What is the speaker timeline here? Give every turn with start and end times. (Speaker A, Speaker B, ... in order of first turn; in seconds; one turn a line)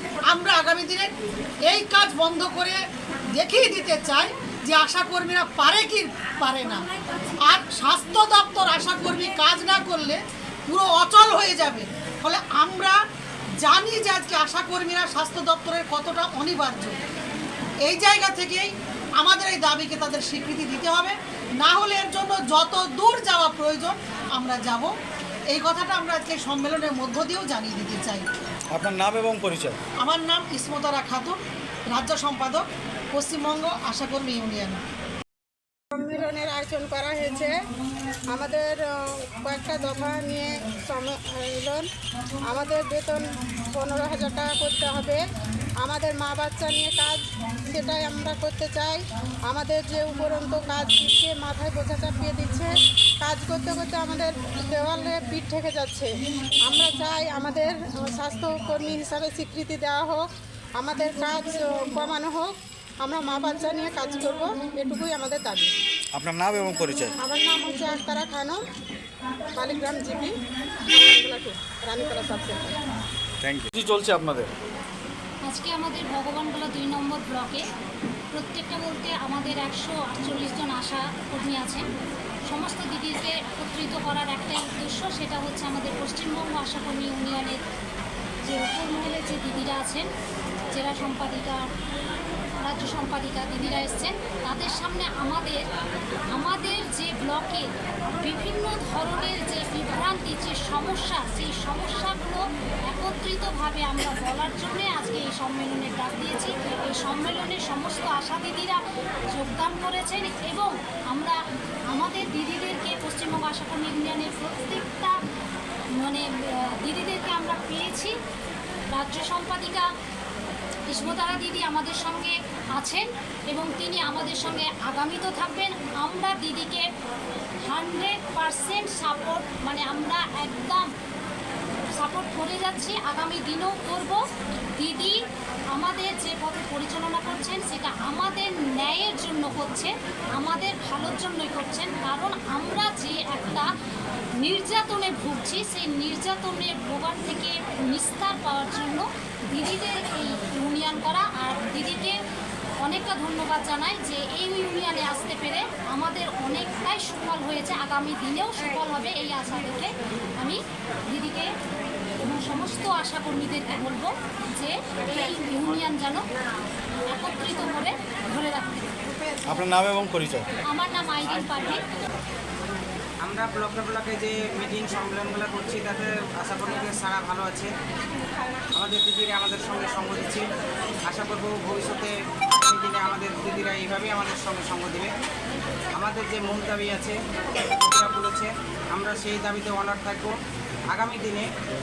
Speaker A: 0.2-1.1
Speaker A: 1.6-2.8
Speaker A: 3.3-6.9
Speaker A: 7.4-13.0
Speaker A: 13.6-17.0
Speaker A: 17.8-24.9
Speaker A: 25.5-28.2
Speaker B: 28.7-29.8
Speaker A: 30.0-34.8
Speaker C: 35.9-37.5
Speaker C: 38.3-41.9
Speaker C: 42.5-45.2
Speaker C: 45.8-56.1
Speaker C: 56.6-65.7
Speaker B: 66.1-67.1
Speaker C: 67.2-68.6
Speaker C: 69.5-70.3
Speaker C: 70.9-72.8
Speaker B: 73.4-74.5
Speaker D: 75.4-77.6
Speaker D: 78.3-81.9
Speaker D: 82.5-87.6
Speaker D: 88.4-90.1
Speaker D: 90.7-91.7
Speaker D: 92.6-95.6
Speaker D: 96.3-108.8
Speaker D: 109.3-111.4
Speaker D: 111.9-115.2
Speaker D: 116.0-118.2
Speaker D: 118.9-119.9
Speaker D: 120.9-126.8
Speaker D: 127.7-130.9
Speaker D: 132.0-134.2
Speaker D: 134.8-135.2
Speaker D: 135.7-143.7
Speaker D: 144.4-152.2
Speaker D: 152.8-161.5
Speaker D: 162.2-166.2
Speaker D: 167.1-168.9
Speaker B: 169.5-170.4
Speaker D: 170.6-171.8
Speaker E: 173.2-177.7
Speaker E: 178.7-180.4
Speaker E: 181.0-185.1
Speaker E: 185.9-187.2
Speaker E: 187.7-190.3
Speaker E: 190.9-191.4